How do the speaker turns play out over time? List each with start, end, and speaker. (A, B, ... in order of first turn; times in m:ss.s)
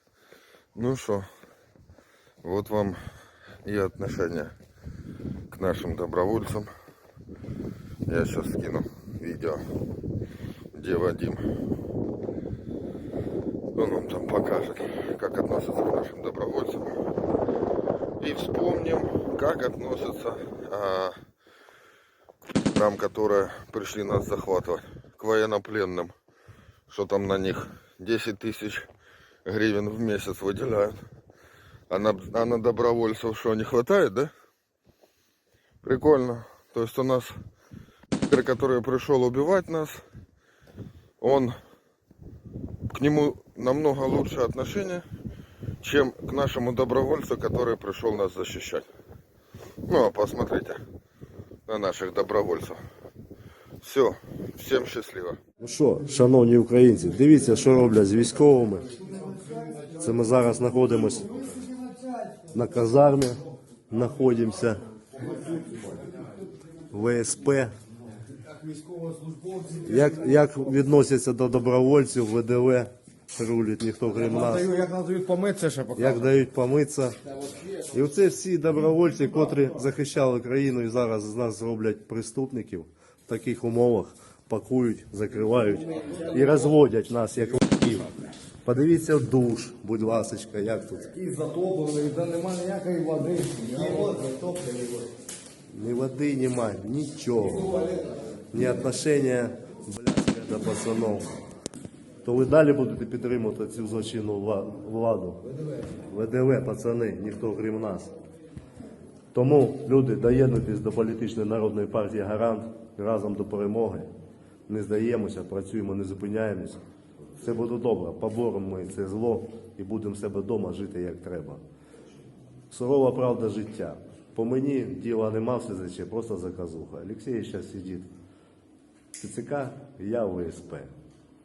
0:00.7-0:01.2 A
0:02.4-0:03.0 A
0:03.6-0:04.5 A
0:05.5-0:06.7 A
0:08.1-0:09.6 A
0:10.7-0:11.4 A
0:13.7-0:16.9 A
0:18.2-0:21.1 A
0:22.6-0:26.1 A
0:26.9-0:28.9 A
0:29.4-0:31.0 A
0:31.9-0:34.3 A
0:35.8-0:37.4 A
0:38.2-0:40.0 A
0:41.2-0:41.5 A
0:42.9-0:45.0 A
0:45.8-0:48.8 A
0:49.9-0:50.8 A
0:51.7-0:52.8 A
0:53.8-0:55.4 A
0:55.6-0:58.9 B
0:59.9-1:01.6 B
1:02.5-1:04.8 B
1:06.9-1:07.7 B
1:08.5-1:09.9 C
1:09.8-1:14.7 B
1:14.2-1:16.2 C
1:15.9-1:17.2 B
1:17.7-1:31.1 B
1:31.1-1:35.0 C
1:35.7-1:37.8 B
1:38.5-1:41.3 B
1:42.2-1:45.4 B
1:46.0-1:48.1 B
1:49.3-1:54.1 B
1:54.7-1:56.8 B
1:57.4-2:01.6 B
2:02.7-2:08.1 B
2:09.2-2:10.9 B